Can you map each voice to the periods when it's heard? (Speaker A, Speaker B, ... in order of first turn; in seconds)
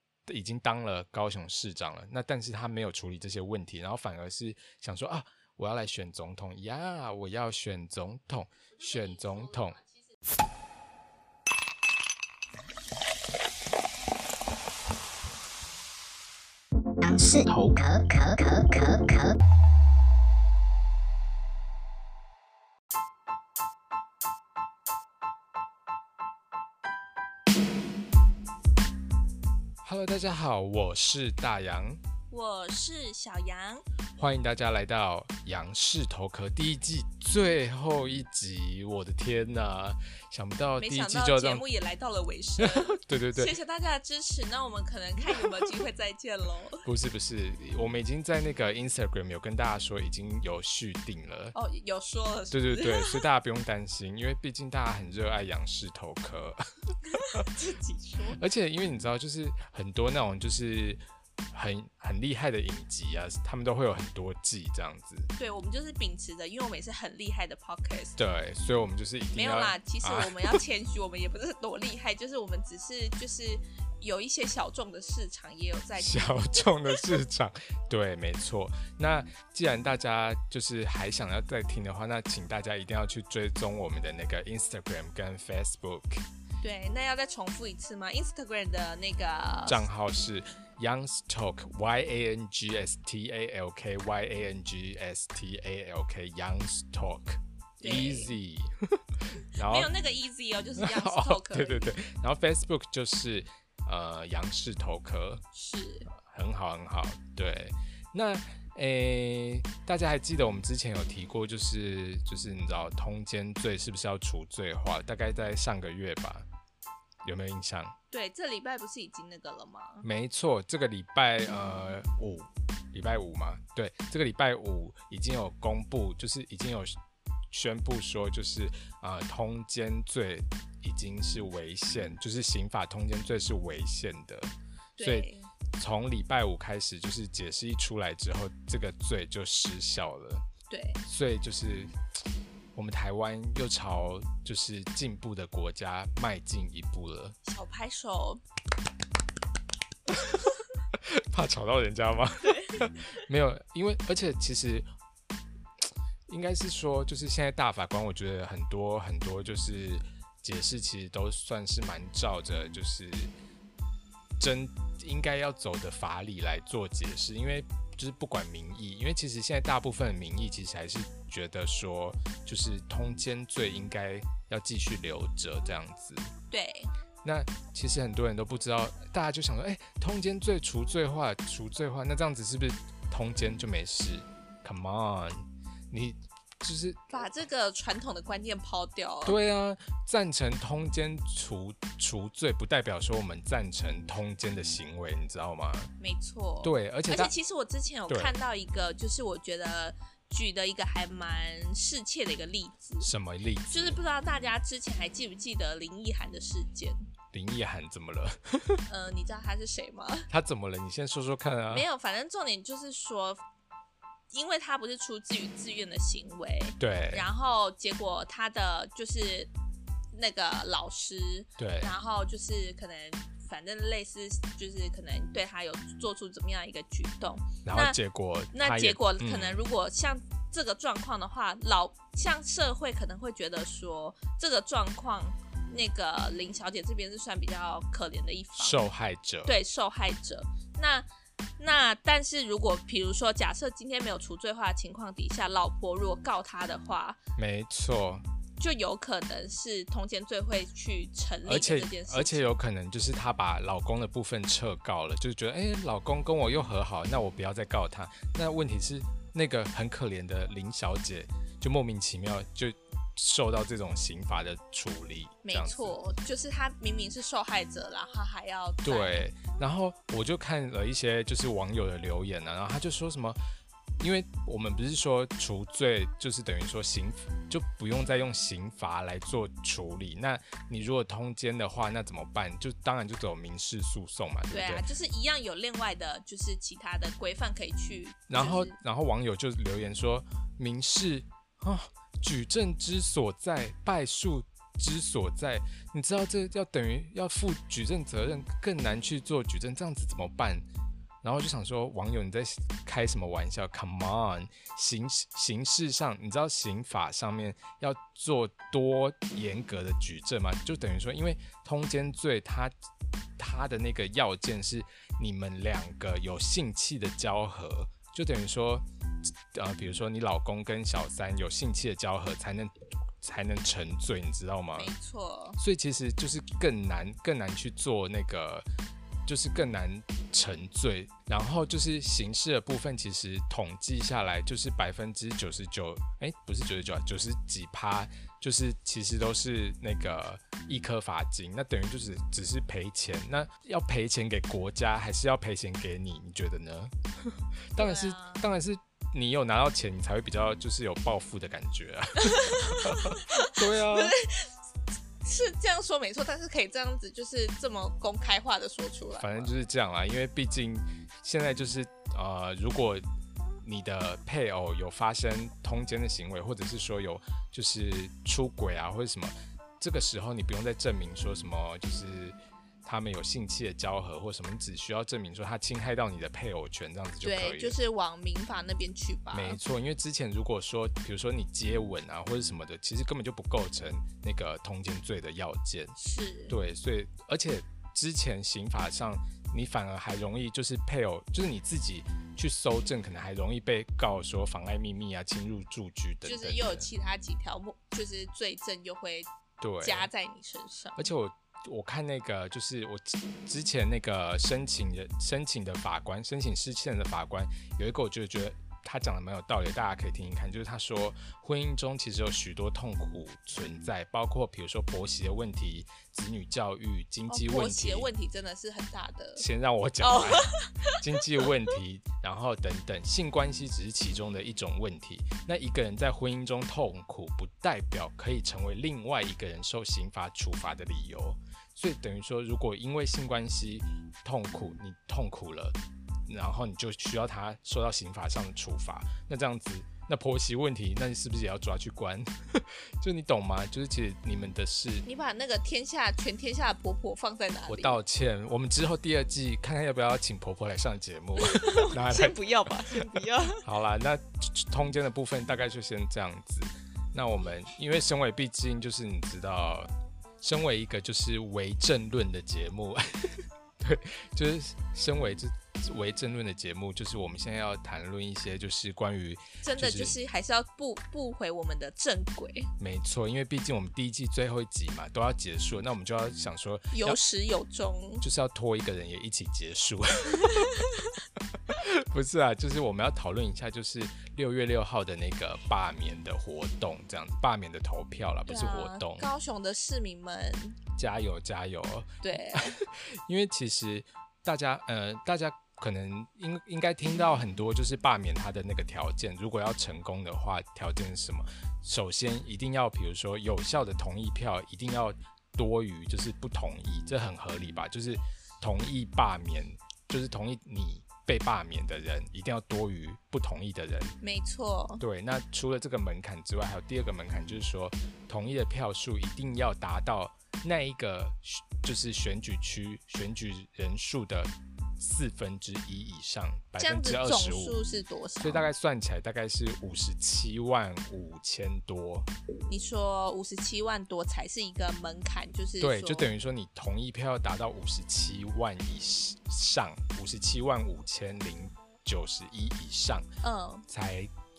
Speaker A: 0.3-9.8, 29.8-32.0, 34.2-41.6, 42.6-43.5, 46.8-51.5, 52.5-56.6, 58.4-61.0, 61.5-65.3, 68.2-70.6, 76.0-86.2, 89.7-99.9, 100.8-105.4, 106.1-116.4, 117.2-118.0, 120.0-126.9, 127.5-140.4, 141.0-141.9, 142.7-147.4, 150.9-154.9, 156.3-163.3, 164.4-176.3, 177.2-187.3, 189.2-195.9, 196.6-197.3, 198.1-198.3, 203.0-204.0, 207.3-208.8, 210.3-211.8, 216.8-217.3, 221.6-221.9, 227.6-229.6, 238.6-239.6, 247.4-248.2, 251.4-265.9, 268.8-273.4, 274.0-284.8, 288.3-300.6, 301.2-312.7, 313.4-318.9, 319.5-324.9, 325.6-328.6, 329.2-354.1, 359.2-363.0, 363.6-377.8, 379.3-385.9, 386.5-396.9, 399.6-400.1, 400.9-418.1, 419.4-445.1, 447.7-470.2, 472.8-477.2, 478.2-480.8, 481.7-489.3, 490.9-514.2, 515.0-527.8, 528.4-532.3, 535.8-543.3, 543.9-544.3
Speaker B: 17.0-19.4
Speaker C: 32.3-33.8, 40.8-46.8, 51.5-53.2, 57.3-58.4, 65.4-68.2, 69.3-77.0, 86.6-89.8, 97.8-98.3, 99.7-102.0, 105.5-106.1, 118.1-120.0, 135.0-135.5, 140.7-141.0, 147.4-148.4, 152.4-153.1, 176.5-176.9, 187.1-189.4, 196.0-203.1, 203.7-207.1, 208.9-210.3, 211.7-213.4, 214.3-219.5, 220.1-228.0, 228.5-238.8, 239.4-241.1, 241.6-247.2, 248.6-252.4, 265.4-269.2, 284.5-288.8, 324.8-325.6, 347.8-348.4, 352.2-354.5, 355.2-359.5, 377.2-379.6, 386.0-386.6, 396.2-399.3, 399.8-401.1, 417.3-419.4, 420.0-421.5, 445.0-448.0, 451.4-453.6, 469.6-472.7, 476.9-478.2, 480.4-481.1, 488.5-490.8, 492.2-492.8, 514.2-515.0, 526.8-528.7, 532.7-536.3, 543.4-543.9